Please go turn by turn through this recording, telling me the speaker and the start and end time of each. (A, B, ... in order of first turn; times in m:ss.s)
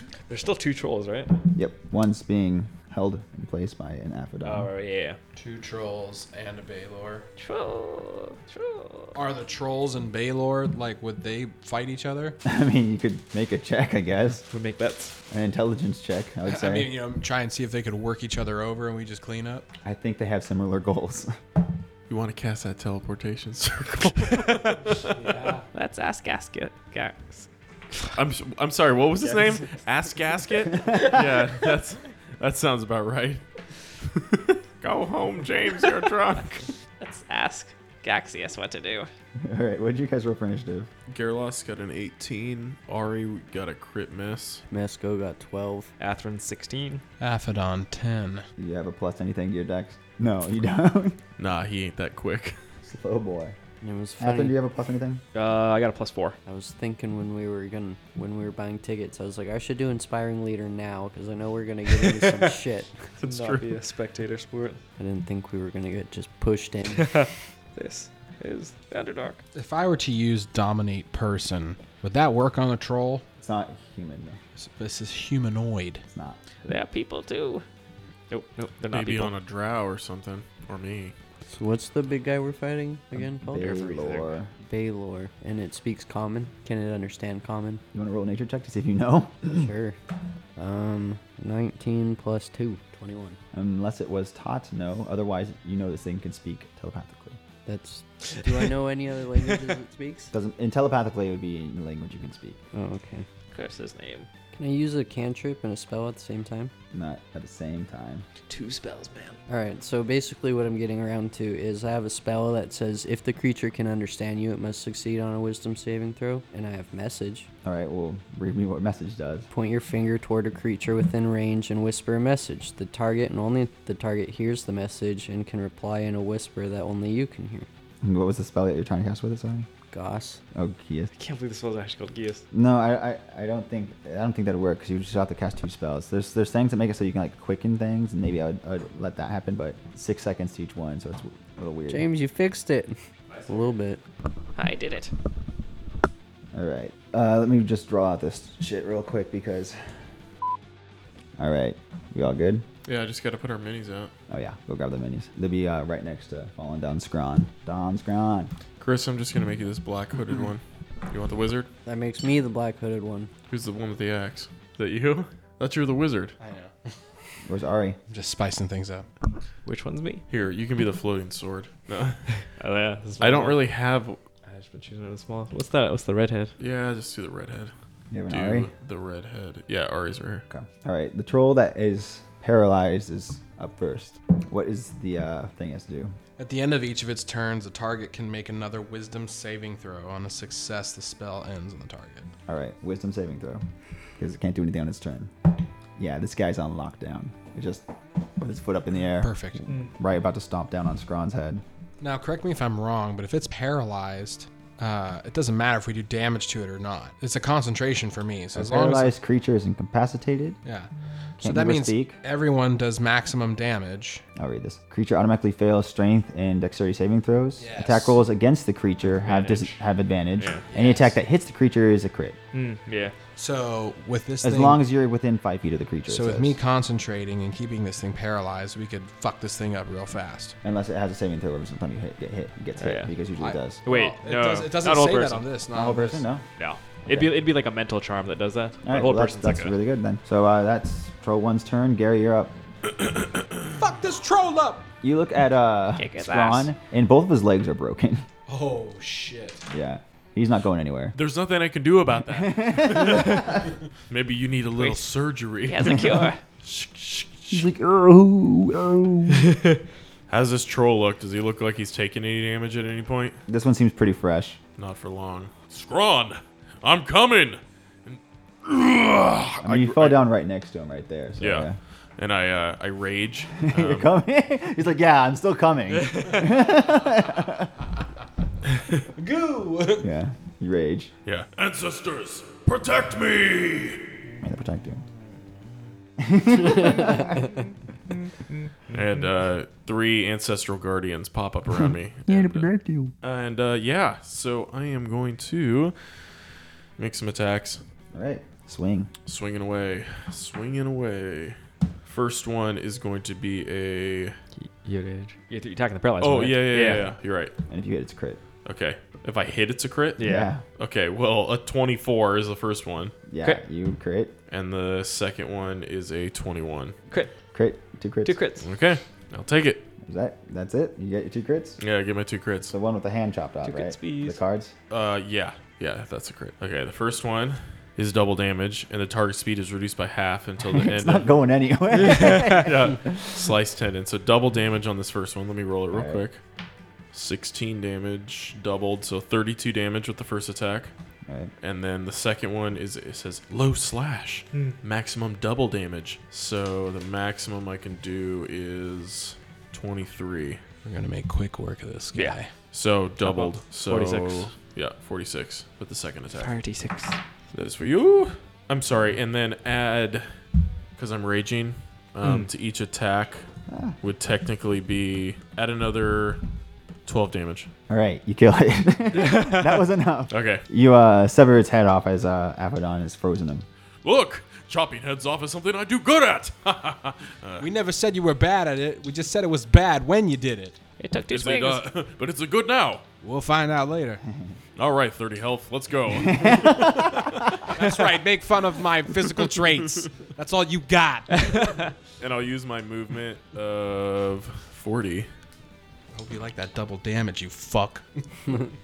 0:00.3-0:01.4 A
0:01.6-0:04.7 B
0:04.4-0:05.2 A
0:05.4-0:07.3 C
0:07.4-0:09.1 D
0:09.1-0:12.4 C
0:12.4-0:14.4 B
0:14.4-0:15.1 A
0:15.3-0:16.9 B
0:16.4-0:19.7 C
0:19.8-0:21.4 B
0:22.1-0:25.1 E
0:25.2-0:25.7 C
0:25.7-0:27.5 D
0:28.2-0:33.4 E
0:29.2-0:29.6 A
0:30.8-0:31.1 B
0:34.2-0:36.6 E
0:37.0-0:39.1 D
0:39.4-0:40.9 B
0:41.1-0:44.6 E
0:44.7-0:45.9 F
0:46.0-0:47.0 A
0:47.2-0:48.5 C
0:48.6-0:51.2 B
0:51.4-0:52.6 E
0:52.8-0:53.6 B
0:53.8-0:54.6 F
0:54.2-0:55.2 B
0:55.3-0:56.4 A
0:56.5-1:03.0 F
1:03.2-1:03.8 E
1:03.2-1:04.8 A
1:05.0-1:07.2 F
1:06.9-1:09.4 A
1:08.9-1:09.4 D
1:09.5-1:13.2 C
1:13.4-1:14.4 B
1:14.6-1:16.0 C
1:16.1-1:16.4 B
1:16.7-1:17.6 D
1:18.3-1:19.3 A
1:18.9-1:21.1 E
1:21.5-1:23.9 F
1:23.5-1:24.5 B
1:23.6-1:24.3 A
1:24.6-1:27.8 F
1:27.9-1:29.7 B
1:29.5-1:30.0 F
1:30.6-1:33.4 F
1:33.5-1:37.4 B
1:37.7-1:40.3 F
1:38.4-1:38.6 A
1:40.3-1:42.6 B
1:42.7-1:43.3 F
1:43.5-1:44.3 D
1:44.5-1:46.7 F
1:46.9-1:48.3 B
1:48.5-1:49.4 A
1:49.5-1:57.5 F
1:57.6-1:59.5 B
1:59.5-2:07.7 F
2:08.0-2:09.7 B
2:09.9-2:10.4 F
2:10.5-2:11.1 B
2:11.2-2:12.4 A
2:12.5-2:22.1 B
2:21.9-2:23.0 F
2:23.3-2:23.7 A
2:23.5-2:24.0 F
2:24.6-2:25.1 D
2:26.5-2:29.8 B
2:31.4-2:32.7 B
2:32.8-2:34.1 E
2:34.3-2:38.5 B
2:38.8-2:41.7 E
2:41.8-2:43.3 F
2:43.5-2:46.4 E
2:46.4-2:46.9 C
2:47.4-2:48.0 B
2:48.1-2:49.1 C
2:49.6-2:50.2 A
2:50.3-2:52.3 E
2:52.6-2:53.6 A
2:53.2-2:54.2 E
2:54.4-2:56.5 A
2:56.6-2:57.7 E
2:58.1-2:58.7 B
2:58.3-3:00.4 E
3:00.5-3:06.2 B
3:06.4-3:12.3 C
3:12.5-3:13.6 B
3:14.2-3:15.3 B
3:16.0-3:17.9 B
3:18.4-3:21.6 B
3:19.2-3:19.7 C
3:22.0-3:29.2 C
3:28.5-3:30.6 B
3:30.6-3:30.9 C
3:31.4-3:32.2 B
3:31.4-3:34.2 C
3:34.4-3:42.4 B
3:37.6-3:38.2 C
3:39.2-3:39.8 A
3:40.4-3:40.6 A
3:40.7-3:41.2 C
3:42.5-3:43.1 A
3:43.4-3:44.8 C
3:44.4-3:46.6 B
3:46.1-3:50.6 C
3:50.6-3:53.8 B
3:52.8-3:53.1 A
3:53.4-3:56.3 C
3:53.8-3:55.5 A
3:55.7-3:56.5 B
3:56.6-3:59.8 A
3:57.1-3:57.4 B
3:58.8-4:02.5 B
4:03.0-4:03.6 E
4:03.8-4:04.9 C
4:05.0-4:08.2 B
4:06.0-4:06.7 D
4:08.5-4:09.6 C
4:09.7-4:11.2 B
4:11.2-4:13.5 E
4:12.3-4:13.7 B
4:14.1-4:17.7 E
4:15.7-4:16.4 D
4:17.5-4:19.5 B
4:20.3-4:23.4 E
4:23.5-4:24.6 B
4:24.8-4:30.3 E
4:29.6-4:31.8 B
4:31.4-4:34.1 E
4:33.7-4:37.7 B
4:39.2-4:40.1 C
4:40.0-4:41.1 B
4:41.3-4:44.1 E
4:44.4-4:45.0 B
4:46.2-4:47.4 B
4:48.9-4:52.7 E
4:52.3-4:53.1 B
4:53.2-4:56.2 E
4:57.0-4:57.8 E
4:58.1-4:59.1 B
4:59.3-5:04.4 E
5:04.6-5:07.2 A
5:06.2-5:07.5 E
5:07.7-5:08.4 B
5:08.6-5:13.1 E
5:10.2-5:10.5 A
5:10.2-5:10.6 B
5:13.3-5:14.3 B
5:14.5-5:17.0 E
5:17.5-5:18.4 B
5:18.2-5:18.7 A
5:18.6-5:19.9 E
5:20.0-5:21.8 B
5:21.8-5:22.7 E
5:22.7-5:24.7 B
5:23.6-5:24.4 A
5:24.9-5:31.3 E
5:30.7-5:33.3 B
5:32.1-5:32.5 A
5:32.2-5:36.4 E
5:35.9-5:36.2 B
5:37.1-5:40.9 E
5:41.3-5:41.5 B
5:41.6-5:50.6 E
5:50.8-5:52.5 C
5:52.7-5:56.6 E
5:53.2-5:54.5 A
5:56.4-5:57.2 A
5:57.5-6:00.3 E
6:01.0-6:03.5 E
6:02.2-6:02.5 A
6:03.7-6:04.0 B
6:04.0-6:06.4 E
6:07.1-6:07.7 E
6:07.9-6:13.7 B
6:09.4-6:09.7 A
6:10.3-6:10.6 E
6:14.0-6:17.7 E
6:17.6-6:20.8 C
6:21.0-6:21.8 D
6:21.3-6:23.0 E
6:23.2-6:24.2 C
6:24.8-6:27.6 E
6:26.2-6:27.2 B
6:27.7-6:31.9 C
6:32.2-6:35.3 E
6:36.1-6:38.2 C